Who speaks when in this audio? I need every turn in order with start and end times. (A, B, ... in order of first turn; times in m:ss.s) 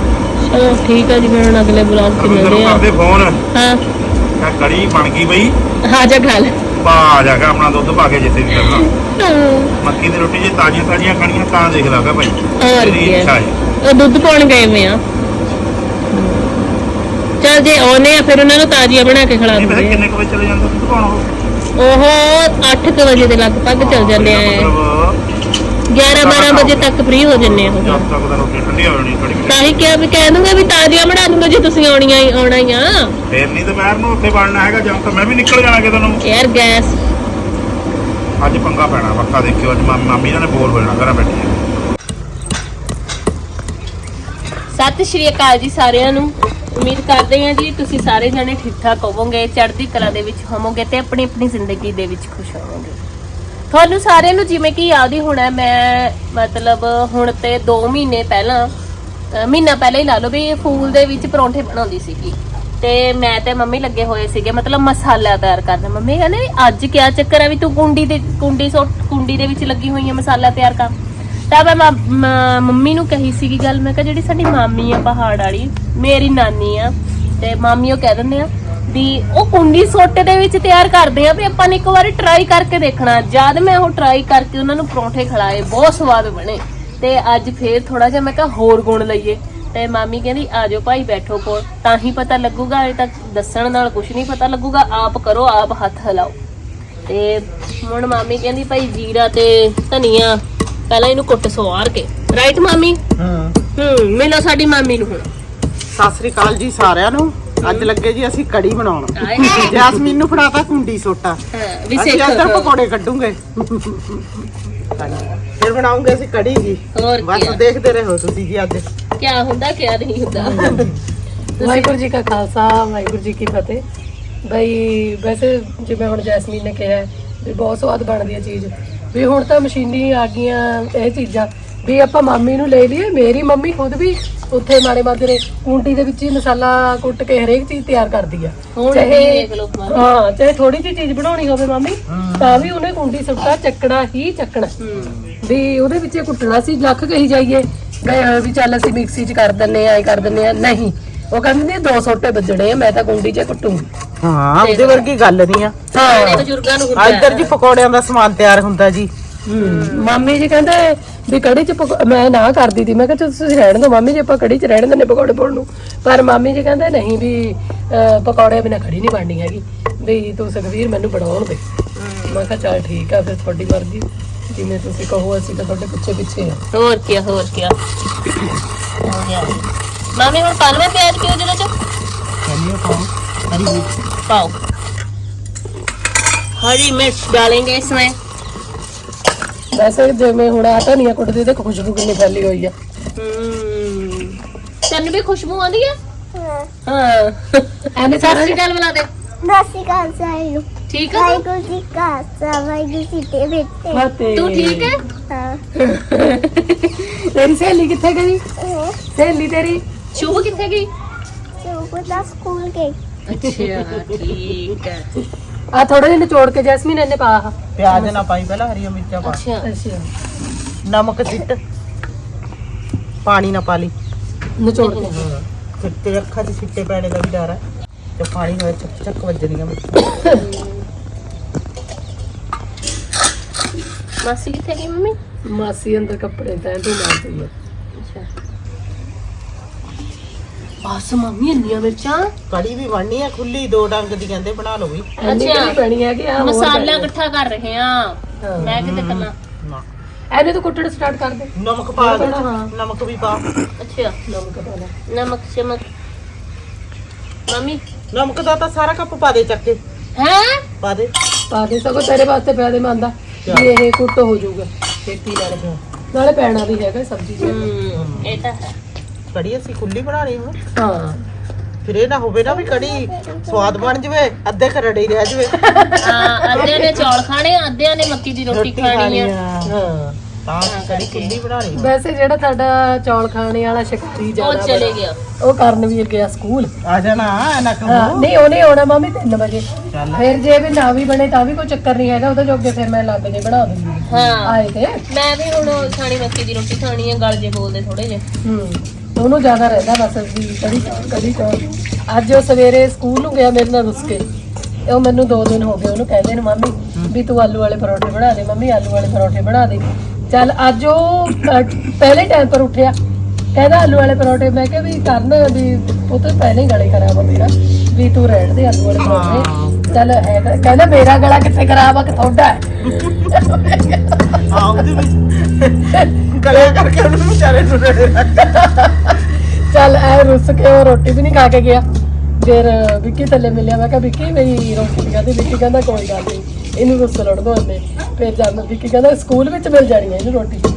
0:00.4-0:02.8 A
0:02.2-0:03.4 B
0:03.5-0:03.8 A
0:04.4-0:05.5 B
0:05.8-0:06.5 A
0:06.8-0:08.9 B
0:08.6-0:09.7 A
0:09.8-0:13.6 B
0:12.6-0:13.3 A
0:13.8-0:15.0 A
0:16.1-0:16.6 A
0:17.4-0:20.0 A
0:19.5-0:21.3 B
0:21.8-0:24.7 A
0:23.8-0:25.2 B
0:25.9-0:28.0 A
0:26.2-0:29.9 B
0:29.5-0:33.1 A
0:33.3-0:36.2 B
0:36.2-0:37.0 A
0:38.4-0:41.6 B
0:44.7-0:53.0 A
0:53.7-0:58.7 A
0:59.3-1:10.9 A
1:11.5-1:36.3 A
1:37.1-1:43.0 A
1:43.2-1:43.5 C
1:43.8-1:45.2 A
1:45.9-1:51.4 C
1:47.6-1:47.9 A
1:49.2-1:49.9 A
1:51.5-1:52.7 A
1:51.9-1:54.2 C
1:55.0-1:58.8 C
1:56.9-1:57.6 A
1:59.2-2:00.8 A
2:00.4-2:01.0 C
2:00.6-2:00.9 D
2:01.6-2:01.9 A
2:01.6-2:03.8 D
2:04.5-2:24.7 D
2:18.8-2:20.0 A
2:22.1-2:22.7 C
2:24.8-2:25.2 A
2:25.4-2:33.9 D
2:34.2-2:35.7 C
2:34.6-2:35.1 A
2:35.9-2:36.5 D
2:36.0-2:37.5 A
2:37.0-2:39.1 C
2:39.5-2:51.6 D
2:39.6-2:40.1 A
2:52.0-2:52.4 A
2:52.3-2:56.6 D
2:56.7-2:57.7 A
2:59.0-2:59.6 A
3:00.2-3:01.7 A
3:02.4-3:03.9 C
3:04.3-3:04.5 A
3:06.6-3:08.1 A
3:09.7-3:12.7 D
3:13.2-3:14.4 A
3:14.9-3:15.9 A
3:16.4-3:16.7 E
3:16.9-3:19.1 A
3:18.0-3:18.6 D
3:19.4-3:24.0 E
3:20.9-3:21.4 A
3:23.9-3:24.9 D
3:24.3-3:25.0 A
3:25.3-3:25.6 E
3:25.9-3:26.4 D
3:27.3-3:28.4 D
3:28.6-3:29.0 E
3:29.2-3:29.8 D
3:30.1-3:30.9 A
3:30.2-3:30.4 E
3:31.6-3:33.0 E
3:33.3-3:35.1 A
3:33.5-3:34.2 C
3:35.7-3:38.2 D
3:37.8-3:39.4 C
3:39.2-3:39.6 A
3:39.6-3:40.1 D
3:40.9-3:41.6 C
3:43.2-3:43.9 C
3:44.6-3:45.3 D
3:45.1-3:47.6 C
3:48.2-3:49.8 C
3:50.4-3:50.8 A
3:54.2-3:55.2 A
3:55.5-3:57.5 D
3:58.0-3:58.3 A
4:00.8-4:02.3 A
4:02.5-4:05.1 C
4:05.2-4:07.1 D
4:05.2-4:05.8 A
4:06.4-4:09.3 A
4:08.4-4:08.7 D
4:08.6-4:09.8 C
4:10.3-4:12.7 D
4:11.6-4:13.4 C
4:13.8-4:14.2 A
4:14.3-4:14.9 D
4:15.1-4:15.8 A
4:17.5-4:17.8 A
4:18.1-4:19.8 C
4:20.2-4:20.6 A
4:20.8-4:21.1 C
4:21.5-4:27.6 D
4:27.4-4:28.7 A
4:27.9-4:28.4 C
4:29.3-4:30.6 C
4:30.8-4:31.2 D
4:31.8-4:35.5 C
4:32.5-4:33.9 E
4:35.6-4:37.0 D
4:36.0-4:39.3 A
4:38.5-4:39.7 C
4:39.6-4:40.1 D
4:40.4-4:41.9 C
4:40.6-4:41.4 A
4:41.7-4:46.7 D
4:44.4-4:45.2 A
4:46.8-4:48.3 C
4:47.8-4:55.0 D
4:49.9-4:50.2 C
4:54.1-4:58.2 A
4:58.4-5:04.2 D
5:04.9-5:12.9 D
5:13.5-5:22.6 D
5:19.0-5:19.8 C
5:22.8-5:23.5 C
5:23.3-5:24.2 D
5:24.5-5:28.9 C
5:29.7-5:31.8 D
5:32.4-5:40.6 D